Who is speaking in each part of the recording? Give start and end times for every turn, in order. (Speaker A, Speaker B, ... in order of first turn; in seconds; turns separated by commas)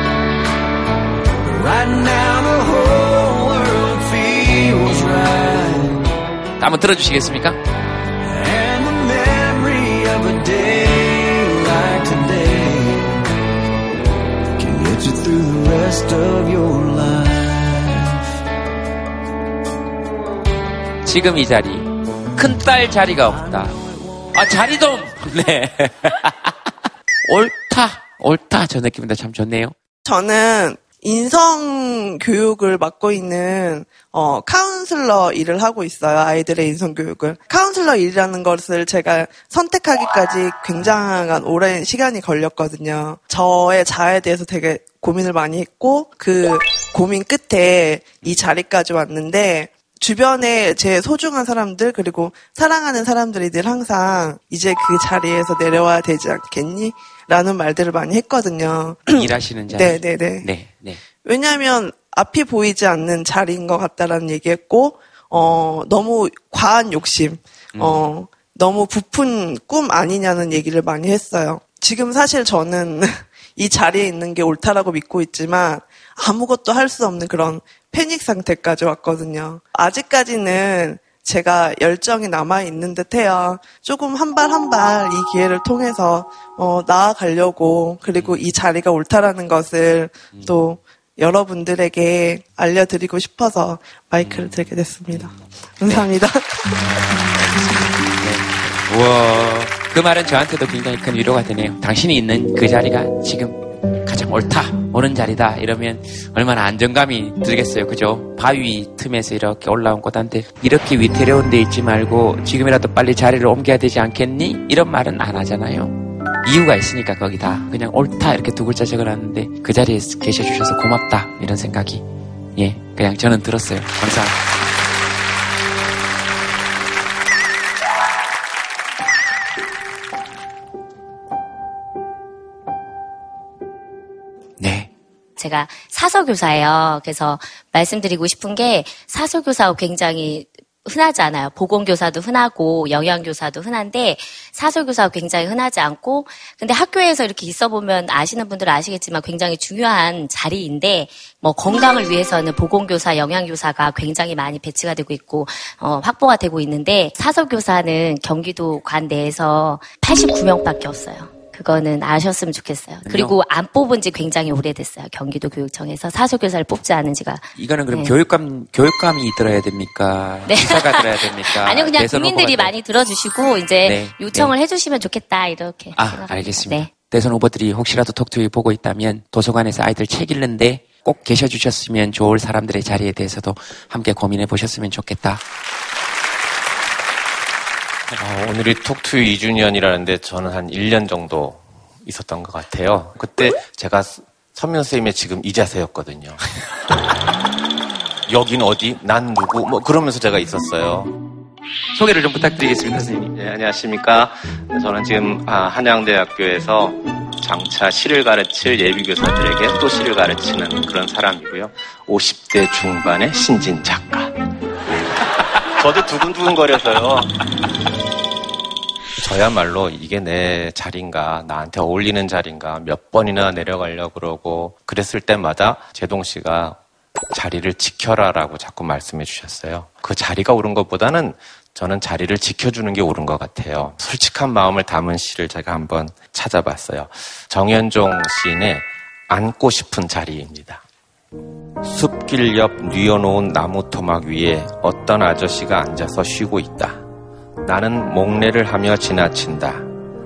Speaker A: 1.5-6.0, Speaker B: 6.6-7.6, Speaker A: 8.3-13.2, Speaker A: 14.6-18.1, Speaker B: 21.0-23.8, Speaker B: 24.3-26.7, Speaker B: 27.3-29.7, Speaker C: 30.1-60.5, Speaker B: 59.1-61.0, Speaker C: 61.2-96.7, Speaker B: 67.7-68.1, Speaker B: 88.2-88.4, Speaker B: 90.3-90.6, Speaker B: 94.2-96.1, Speaker B: 96.8-122.0, Speaker B: 122.6-124.4, Speaker B: 134.6-134.9, Speaker D: 135.4-168.2, Speaker B: 163.0-163.4, Speaker B: 167.6-172.7, Speaker D: 170.5-176.9, Speaker B: 173.8-174.5, Speaker B: 176.0-185.4, Speaker E: 188.2-196.4, Speaker E: 198.3-201.1, Speaker B: 201.9-203.3, Speaker E: 203.3-214.3, Speaker E: 215.8-217.3, Speaker E: 219.2-226.8, Speaker E: 227.3-240.8, Speaker E: 241.8-247.0, Speaker E: 247.6-249.9